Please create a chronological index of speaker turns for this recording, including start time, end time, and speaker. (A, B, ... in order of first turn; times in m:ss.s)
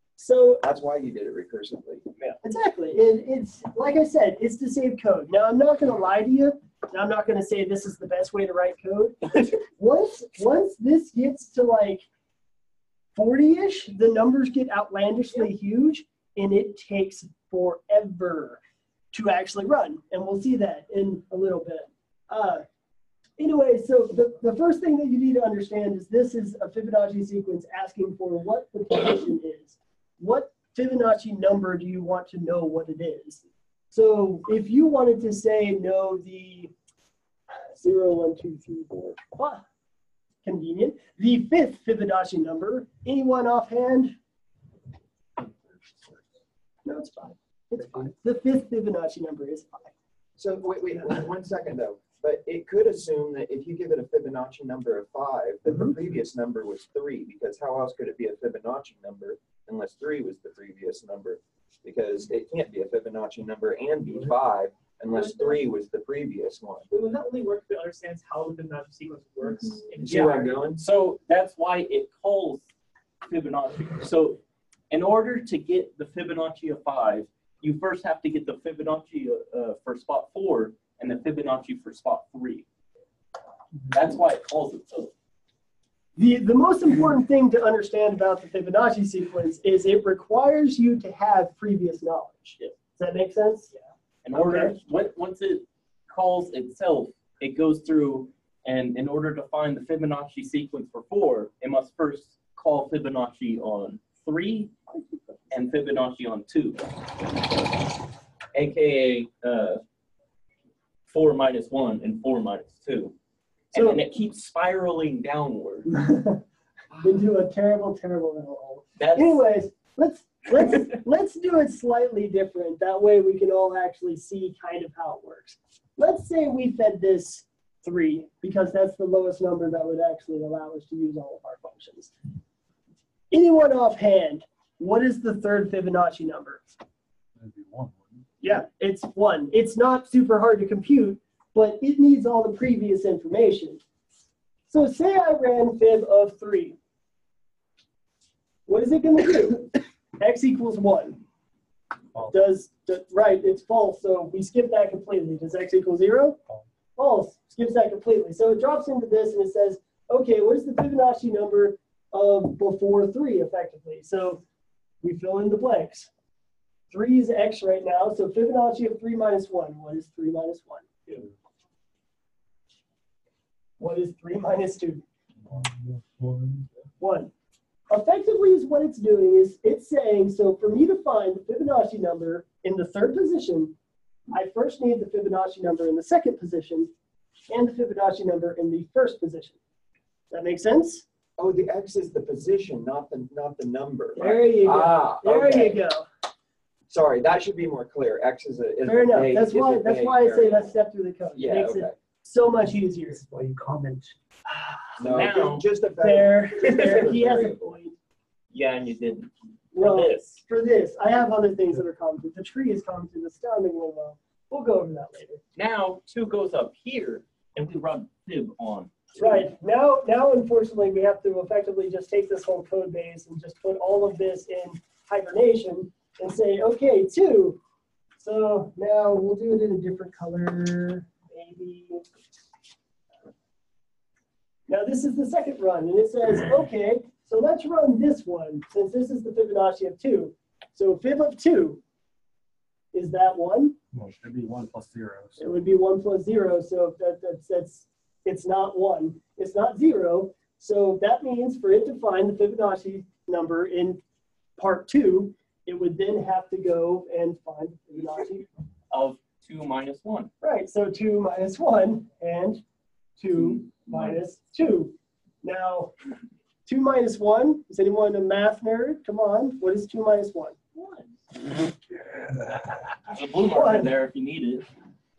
0:00.2-0:00.6 A
0:00.6-0:02.1 B
0:02.4-0:12.0 A
0:13.2-0:18.6 A
0:19.1-0:22.6 A
0:23.4-0:36.7 A
0:37.8-0:39.6 A
0:40.4-0:44.2 A
0:46.8-0:49.9 A
0:50.4-1:06.9 B
1:05.1-1:05.6 C
1:06.9-1:10.6 C
1:10.0-1:10.8 B
1:10.0-1:12.6 D
1:13.3-1:14.4 D
1:14.9-1:22.6 D
1:23.9-1:25.1 D
1:26.2-1:33.7 A
1:34.2-1:44.7 D
1:34.3-1:34.8 A
1:45.5-1:46.9 D
1:48.5-1:49.8 D
1:51.1-1:53.2 D
1:53.7-1:55.9 D
1:53.7-1:54.0 A
1:55.9-1:56.4 A
1:57.0-2:12.1 A
1:59.0-1:59.4 D
2:13.3-2:16.7 A
2:17.4-2:18.3 E
2:18.4-2:23.8 A
2:24.7-2:26.8 A
2:28.7-2:31.2 A
2:32.3-2:36.4 A
2:37.0-2:44.4 A
2:45.0-2:46.1 A
2:46.9-2:51.2 A
2:53.8-2:55.0 A
2:55.4-2:56.7 E
2:57.0-2:57.3 A
2:57.9-3:03.8 A
3:04.3-3:06.9 A
3:07.5-3:09.6 A
3:10.3-3:11.0 A
3:11.4-3:15.8 B
3:14.2-3:16.1 A
3:16.9-3:20.7 B
3:18.8-3:23.2 A
3:21.4-3:22.0 B
3:23.1-3:24.1 C
3:24.5-3:25.3 A
3:25.0-3:27.8 B
3:25.1-3:25.6 D
3:26.0-3:28.0 A
3:28.5-3:30.4 D
3:29.7-3:35.4 A
3:35.6-3:39.5 D
3:39.2-3:47.6 A
3:48.2-3:52.0 A
3:54.7-4:01.8 A
4:02.9-4:03.8 A
4:03.9-4:05.5 E
4:05.4-4:14.0 A
4:14.6-4:18.5 A
4:18.9-4:20.3 D
4:20.4-4:22.6 A
4:23.2-4:25.9 A
4:26.7-4:30.6 A
4:30.8-4:31.1 D
4:32.1-4:32.6 E
4:33.1-4:34.7 D
4:33.5-4:33.9 A